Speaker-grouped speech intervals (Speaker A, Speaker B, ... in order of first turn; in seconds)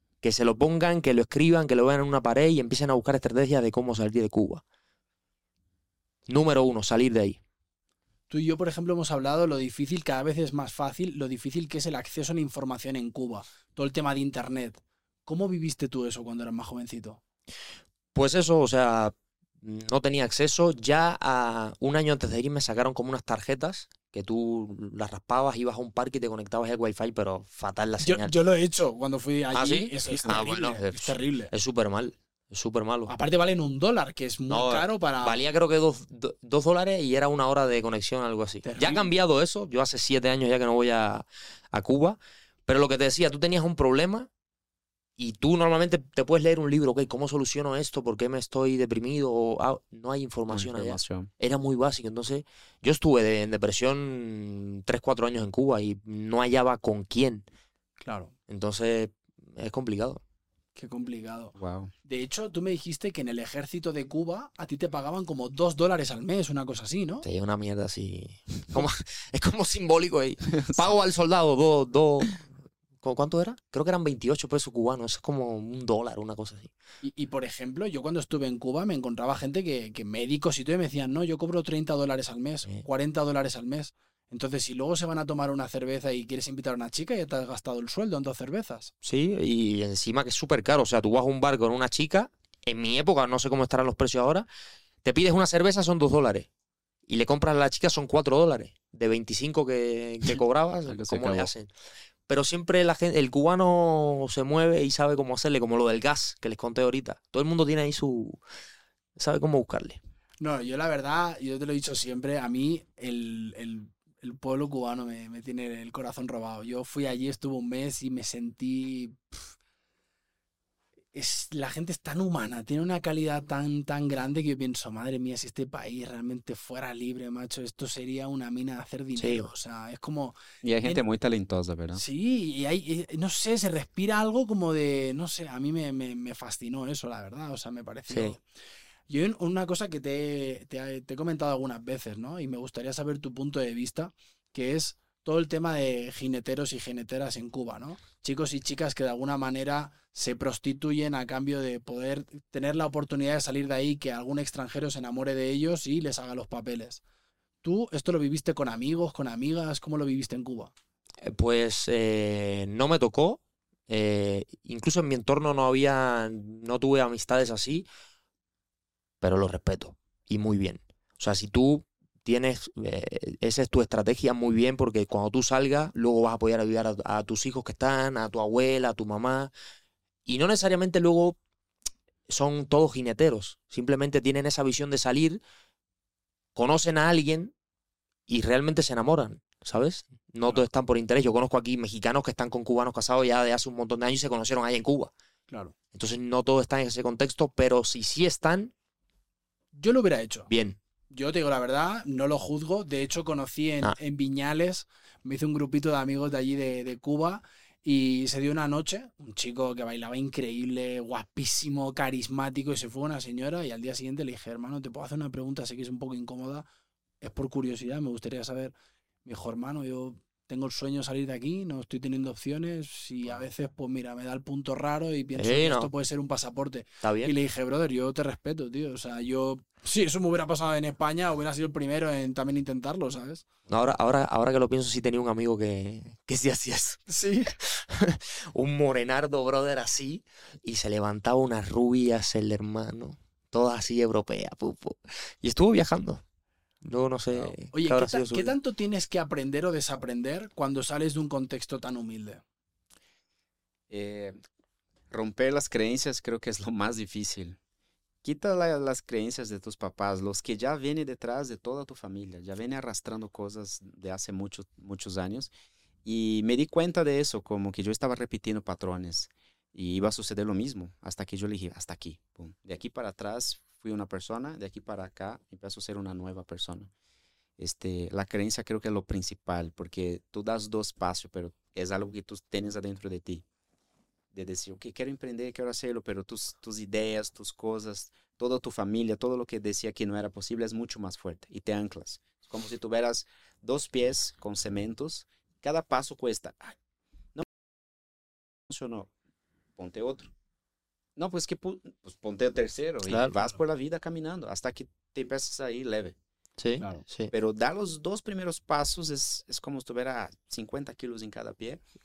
Speaker A: 0.2-4.6, 6.3-7.4, 18.1-28.3, 29.5-33.1, 34.5-44.3, 45.2-57.5, 58.5-60.2, 67.2-72.5, 73.0-76.7, 89.0-94.5, 95.0-96.5, 97.1-101.7, 102.3-108.4, 109.2-110.0, 129.2-129.5, 138.1-138.3, 161.2-167.9, 169.2-179.5, 180.3-181.4, 182.3-185.4, 186.6-187.5, 188.3-195.1, 195.9-198.7, 200.5-200.8, 225.4-225.9, 227.0-227.3, 233.7-237.0, 237.6-246.2, 246.8-248.6, 303.1-303.4, 306.6-307.3
Speaker B: 8.3-17.2, 28.0-31.5, 33.1-35.4, 38.6-39.1, 58.0-58.3, 60.8-61.5, 62.1-67.2, 77.0-88.9, 110.4-119.3, 121.1-131.0, 131.9-138.4, 139.1-157.0, 157.6-160.7, 199.8-200.5, 201.1-216.7, 217.2-218.7, 219.2-233.4, 237.1-237.6, 247.4-252.4
Speaker C: 50.5-51.3, 61.5-61.9, 70.6-70.9, 100.9-101.5, 130.6-132.0, 253.9-254.4, 255.1-257.6, 258.2-265.5, 266.1-276.9, 277.6-283.4, 284.3-296.8, 298.7-299.1, 299.8-300.3, 301.2-306.2, 307.3-311.8